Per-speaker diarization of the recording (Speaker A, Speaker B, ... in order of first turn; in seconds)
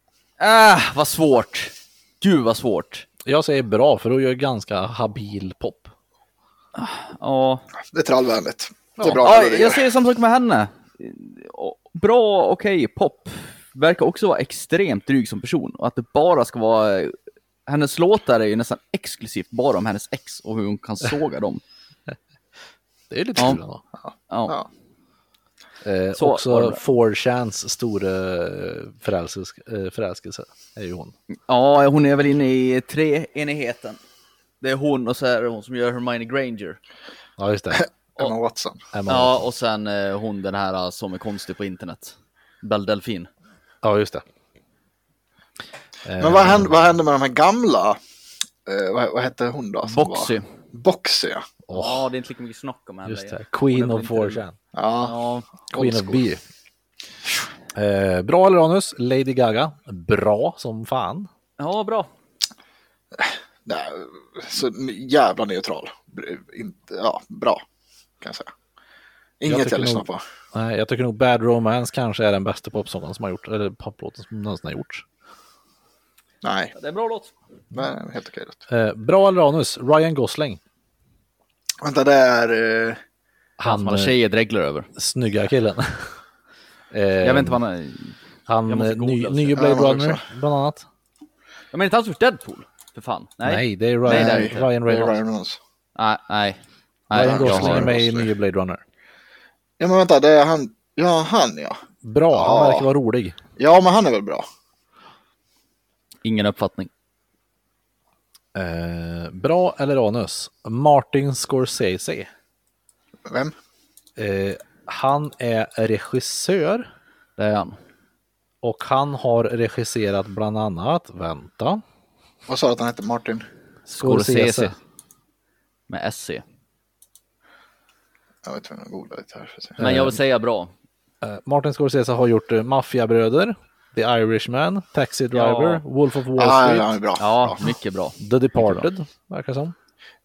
Speaker A: 0.4-3.0, 6.7-7.7, 9.1-17.1, 17.7-21.6, 24.3-24.5, 26.2-26.8, 31.5-34.0, 34.6-36.8, 39.1-43.3, 49.9-50.4, 51.7-54.4, 55.0-55.5, 61.6-62.1, 76.7-77.3, 83.7-84.9, 87.2-88.2, 88.7-89.6, 91.7-94.7, 96.0-96.6, 97.1-97.9, 106.2-106.9, 117.4-117.8, 123.9-124.8, 125.9-126.4, 129.8-130.7, 135.3-135.8, 137.2-138.8
Speaker B: 3.2-5.9, 23.1-23.8, 25.8-31.1, 37.4-37.9, 38.9-39.5, 43.8-44.2, 46.0-46.8, 51.7-52.0, 53.0-54.5, 55.7-56.4, 57.7-61.3, 69.5-75.0, 78.7-80.6, 83.6-84.1, 85.0-86.1, 86.9-87.6, 88.5-90.8, 93.4-95.2, 97.1-98.8, 102.0-103.4, 108.5-112.3, 114.2-116.9, 118.6-121.8, 123.9-124.7, 129.8-130.2, 131.2-136.9, 138.2-139.7
Speaker C: 7.9-9.8, 37.7-38.8, 46.2-48.0, 48.6-51.5, 54.7-55.2, 55.7-56.2, 63.1-67.6, 68.2-68.5, 69.4-70.2, 76.4-76.7, 77.7-78.6, 81.8-83.0, 89.5-90.2, 94.0-95.6, 97.1-98.3, 99.8-101.8, 102.3-102.9, 103.6-104.4, 113.2-113.5, 122.5-123.5, 128.4-129.8, 136.4-137.7